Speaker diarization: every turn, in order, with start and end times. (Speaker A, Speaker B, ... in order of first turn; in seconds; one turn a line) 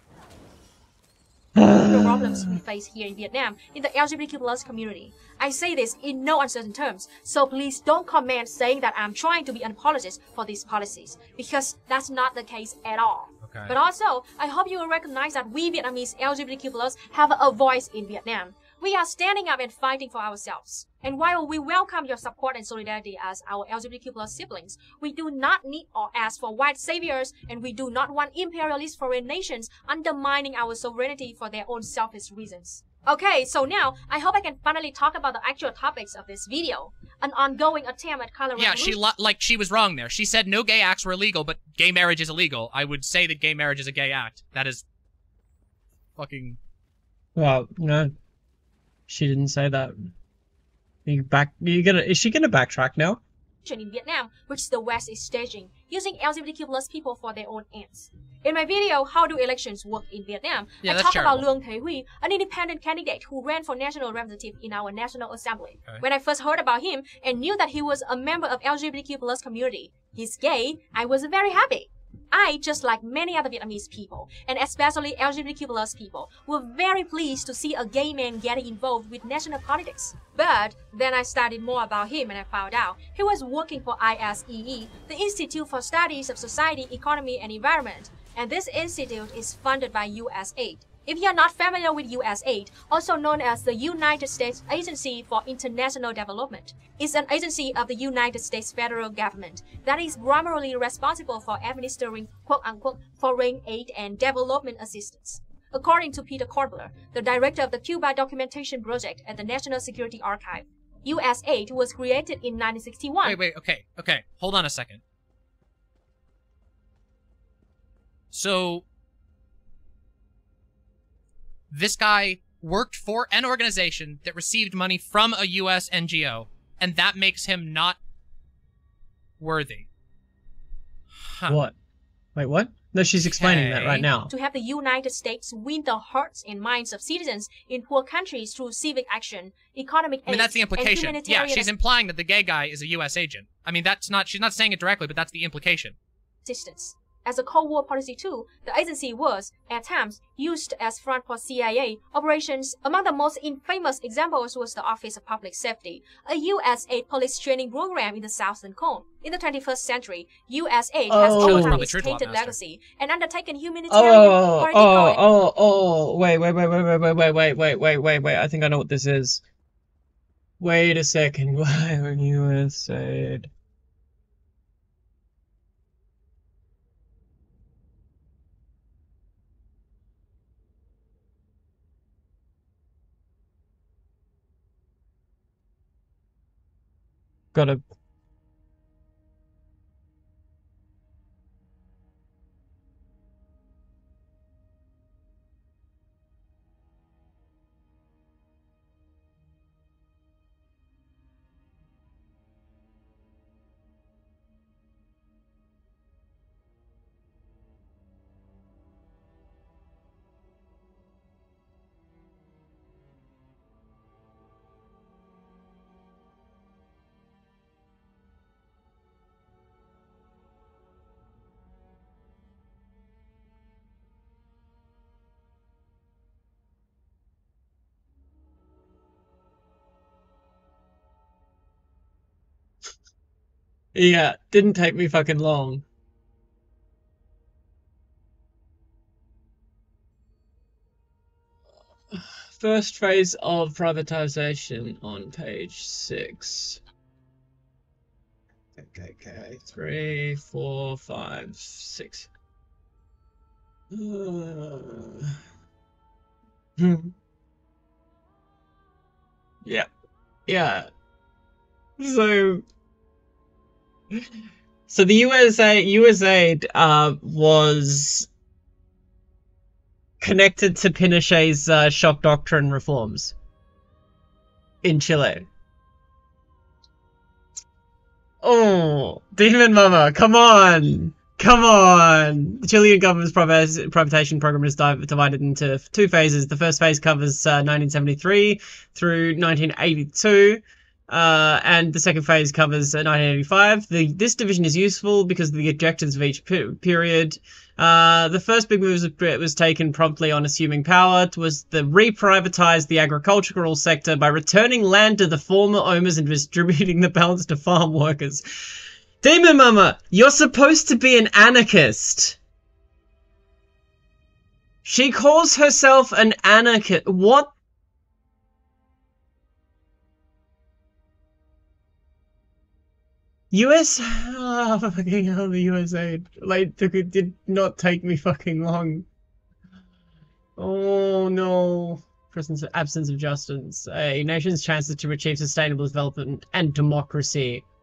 Speaker A: 1.6-2.6
Speaker B: 1.6-39.0
Speaker C: 13.4-13.8
Speaker C: 38.5-44.8
Speaker C: 46.1-46.6
Speaker A: 47.4-48.1
Speaker A: 49.1-50.1
Speaker A: 51.0-53.2
Speaker B: 53.6-113.4
Speaker C: 60.8-61.4
Speaker C: 113.2-115.0
Speaker C: 118.3-118.8
Speaker C: 121.7-128.0
Speaker C: 129.4-129.9
Speaker C: 131.2-131.6
Speaker A: 131.5-131.7
Speaker A: 132.3-134.3
Speaker C: 133.2-134.1
Speaker B: 134.2-141.7
Speaker C: 140.3-145.9
Speaker B: 146.4-165.2
Speaker A: 161.1-161.9
Speaker C: 161.3-162.6
Speaker A: 163.9-169.4
Speaker A: 170.6-173.5
Speaker A: 187.5-187.8
Speaker A: 233.9-235.8
Speaker A: 242.1-246.8
Speaker A: 248.8-252.3
Speaker A: 253.9-255.3
Speaker A: 256.8-257.1
Speaker A: 260.5-260.9
Speaker A: 262.0-262.6
Speaker A: 264.9-268.3
Speaker A: 270.2-273.3
Speaker A: 274.8-275.5
Speaker A: 278.4-312.4
Speaker A: 314.8-317.5
Speaker A: 323.5-329.1
Speaker A: 330.6-337.6